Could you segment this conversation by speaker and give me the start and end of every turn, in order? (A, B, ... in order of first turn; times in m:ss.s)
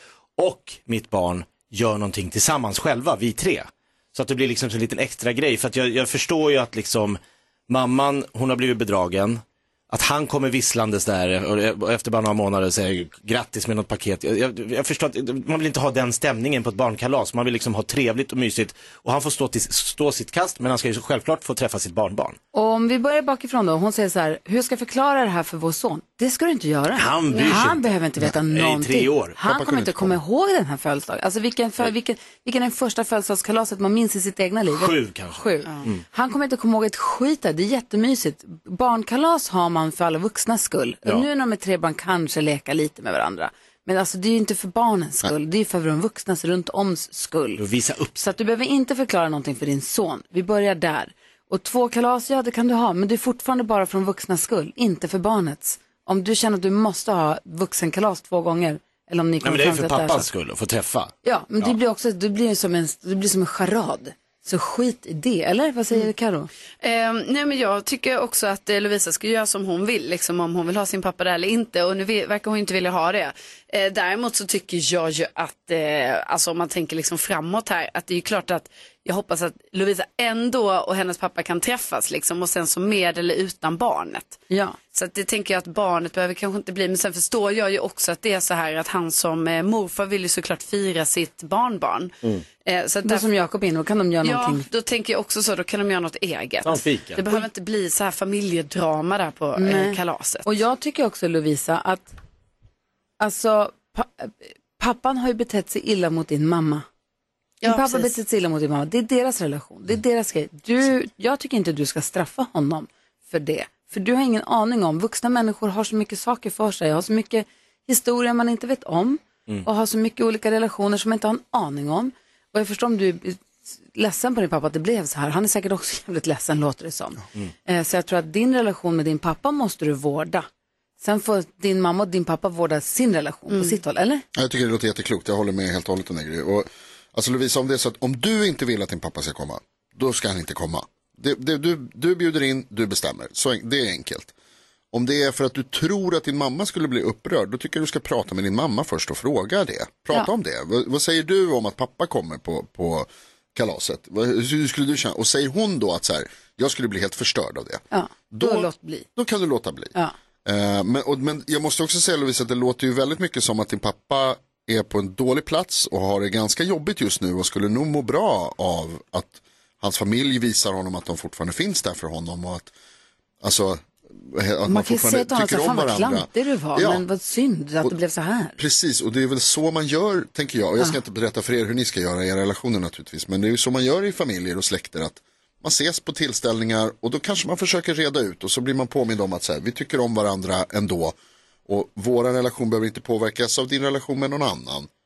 0:00.4-0:22.4 A
0:22.5-0:47.6 B
0:26.9-0:30.1 A
0:27.3-0:27.6 C
0:34.7-0:36.0 A
0:47.6-0:48.3 A
0:48.2-1:00.3 B
0:59.4-1:01.8 A
1:01.2-1:06.5 B
1:06.8-1:24.4 C
1:24.5-1:24.8 B
1:24.9-1:33.3 C
1:33.0-1:34.7 B
1:34.2-1:40.5 C
1:36.6-1:37.3 A
1:39.6-1:42.1 B
1:43.2-1:46.9 B
1:47.6-1:48.1 C
1:47.6-2:10.5 B
2:11.0-2:14.2 B
2:13.5-2:13.8 C
2:14.3-2:24.3 D
2:24.9-2:39.9 D
2:37.9-2:39.1 B
2:40.4-2:52.7 D
2:53.4-2:57.0 D
2:54.7-2:58.6 B
2:58.6-3:11.2 D
3:11.7-3:14.9 D